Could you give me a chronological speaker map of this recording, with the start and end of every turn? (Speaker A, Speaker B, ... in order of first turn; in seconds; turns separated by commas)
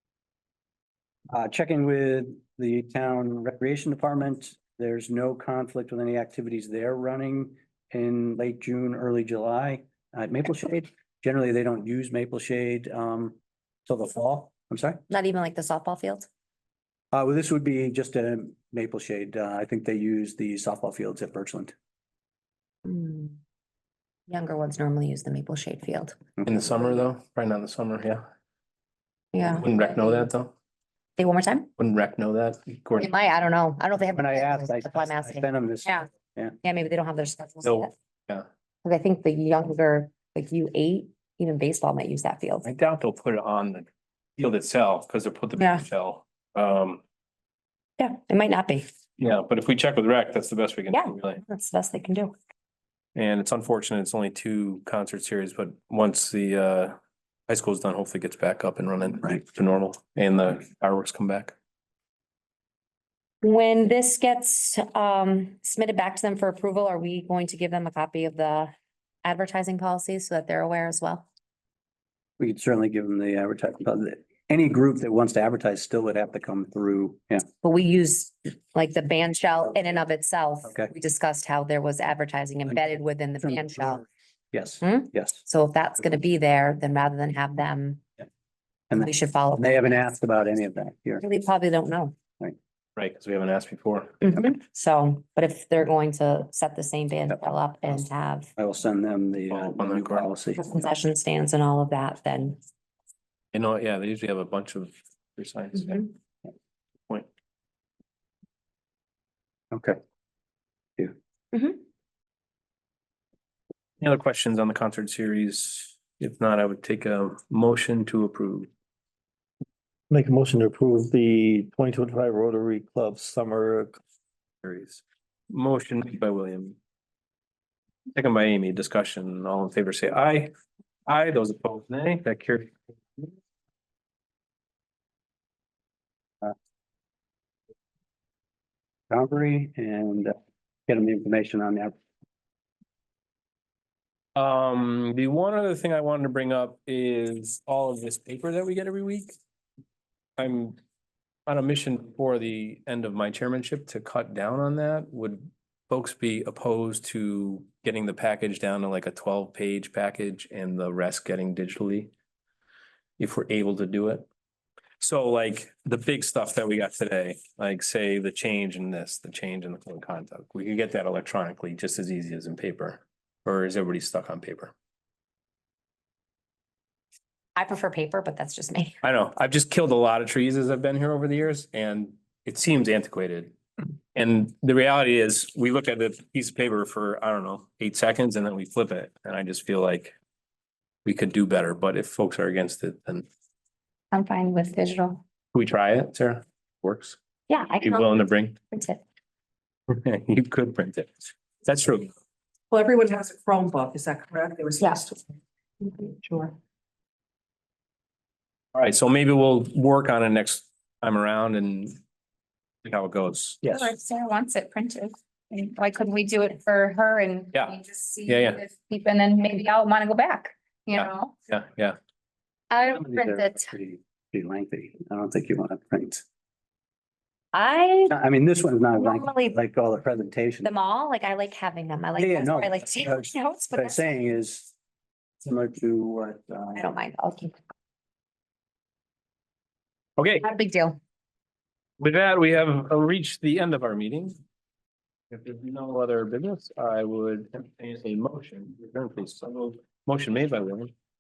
Speaker A: 1.3-15.0, Speaker B: 15.1-16.3, Speaker A: 17.1-21.7, Speaker B: 22.9-23.4, Speaker B: 24.3-26.3, Speaker C: 26.4-28.2, Speaker B: 29.3-30.3, Speaker C: 29.6-30.5, Speaker B: 31.2-31.7, Speaker C: 31.8-33.1, Speaker B: 32.9-36.1, Speaker A: 34.2-36.6, Speaker B: 36.6-37.9, Speaker B: 38.9-42.6, Speaker C: 42.6-43.9, Speaker C: 44.4-47.0, Speaker B: 45.6-45.8, Speaker B: 48.0-48.9, Speaker C: 49.2-51.4, Speaker B: 50.9-52.4, Speaker C: 53.1-57.0, Speaker C: 57.5-61.5, Speaker B: 63.4-68.7, Speaker B: 69.2-71.2, Speaker A: 72.4-77.5, Speaker B: 77.6-84.0, Speaker A: 82.7-85.4, Speaker B: 84.8-88.0, Speaker A: 88.9-91.2, Speaker B: 88.9-90.1, Speaker B: 91.2-92.2, Speaker C: 93.0-94.2, Speaker B: 94.2-98.5, Speaker A: 98.6-100.9, Speaker C: 99.5-100.3, Speaker B: 100.6-102.6, Speaker C: 103.5-106.1, Speaker A: 109.7-110.0, Speaker B: 111.5-111.8, Speaker C: 114.0-118.7, Speaker D: 120.1-124.0, Speaker C: 124.6-126.8, Speaker C: 128.1-130.5, Speaker C: 131.1-133.3, Speaker A: 139.1-140.3, Speaker A: 140.9-142.0, Speaker C: 144.4-149.3, Speaker C: 150.4-150.8, Speaker C: 151.5-162.1, Speaker C: 163.2-164.3, Speaker C: 165.0-174.7, Speaker B: 177.6-178.9, Speaker C: 179.0-183.6, Speaker C: 184.2-190.1, Speaker C: 191.1-193.3, Speaker E: 194.1-195.2, Speaker C: 195.5-197.2, Speaker B: 197.5-199.0, Speaker C: 197.8-198.6, Speaker C: 199.9-201.1, Speaker C: 201.7-202.1, Speaker F: 202.7-205.2, Speaker B: 204.8-205.0, Speaker F: 206.2-206.5, Speaker C: 208.7-212.0, Speaker C: 212.8-213.7, Speaker E: 213.6-221.3, Speaker C: 218.3-218.6, Speaker C: 221.0-222.0, Speaker B: 222.7-223.7, Speaker A: 222.8-226.2, Speaker B: 227.5-228.2, Speaker A: 228.1-230.7, Speaker B: 229.0-229.5, Speaker B: 230.6-234.0, Speaker A: 232.2-234.7, Speaker A: 235.4-236.9, Speaker B: 236.8-237.6, Speaker C: 240.2-240.4, Speaker B: 240.4-241.0, Speaker C: 242.0-244.3, Speaker C: 245.3-250.9